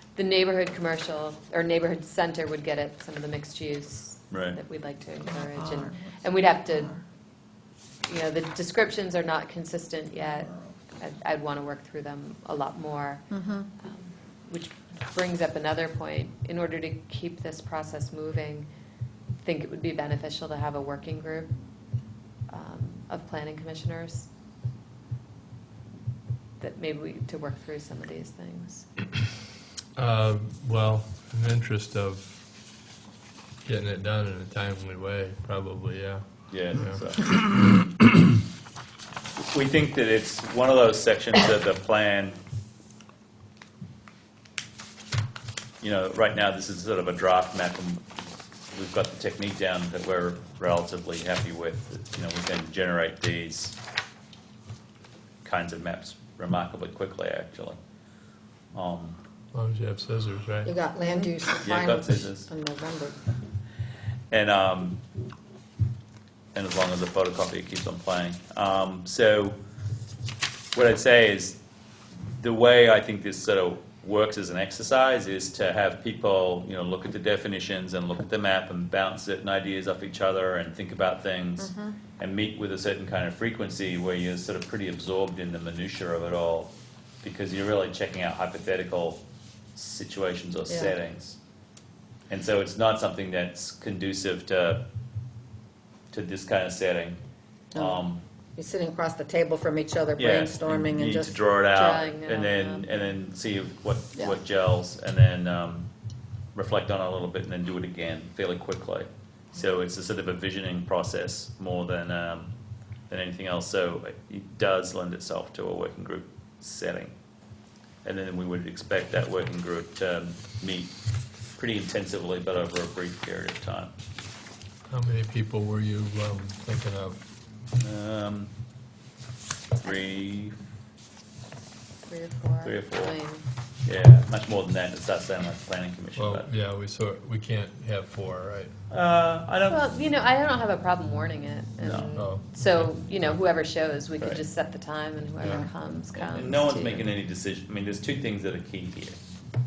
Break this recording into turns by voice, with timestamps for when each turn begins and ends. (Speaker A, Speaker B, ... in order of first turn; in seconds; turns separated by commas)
Speaker A: 0.1-6.9, Speaker B: 4.3-4.6, Speaker C: 5.2-7.0, Speaker A: 8.1-13.3, Speaker C: 13.3-13.7, Speaker A: 13.8-18.7, Speaker A: 19.4-21.5, Speaker A: 22.5-24.3, Speaker A: 26.6-28.9, Speaker D: 30.0-32.4, Speaker D: 33.6-36.2, Speaker B: 36.5-37.2, Speaker D: 36.8-37.9, Speaker B: 39.5-42.4, Speaker B: 45.8-48.0, Speaker B: 48.7-53.8, Speaker B: 55.4-57.8, Speaker B: 58.7-59.2, Speaker D: 59.5-60.7, Speaker C: 60.6-63.2, Speaker B: 61.6-62.5, Speaker B: 64.3-65.0, Speaker B: 66.5-69.5, Speaker B: 70.7-71.6, Speaker B: 72.2-89.2, Speaker C: 81.6-82.0, Speaker B: 89.7-91.4, Speaker C: 90.7-90.9, Speaker B: 92.3-94.8, Speaker B: 96.1-97.2, Speaker C: 97.7-98.0, Speaker B: 97.7-98.2, Speaker C: 98.5-101.4, Speaker B: 100.2-105.9, Speaker A: 101.7-102.9, Speaker B: 106.5-112.5, Speaker B: 113.1-117.1, Speaker B: 118.0-120.9, Speaker B: 121.6-123.9, Speaker D: 124.9-127.2, Speaker B: 127.8-128.5, Speaker B: 129.8-130.5, Speaker A: 132.1-133.4, Speaker B: 132.6-133.1, Speaker B: 133.8-136.5, Speaker D: 136.2-138.7, Speaker B: 138.9-139.8, Speaker A: 139.7-147.1, Speaker B: 141.8-142.1, Speaker D: 142.1-142.4, Speaker C: 145.4-145.7, Speaker B: 146.1-149.2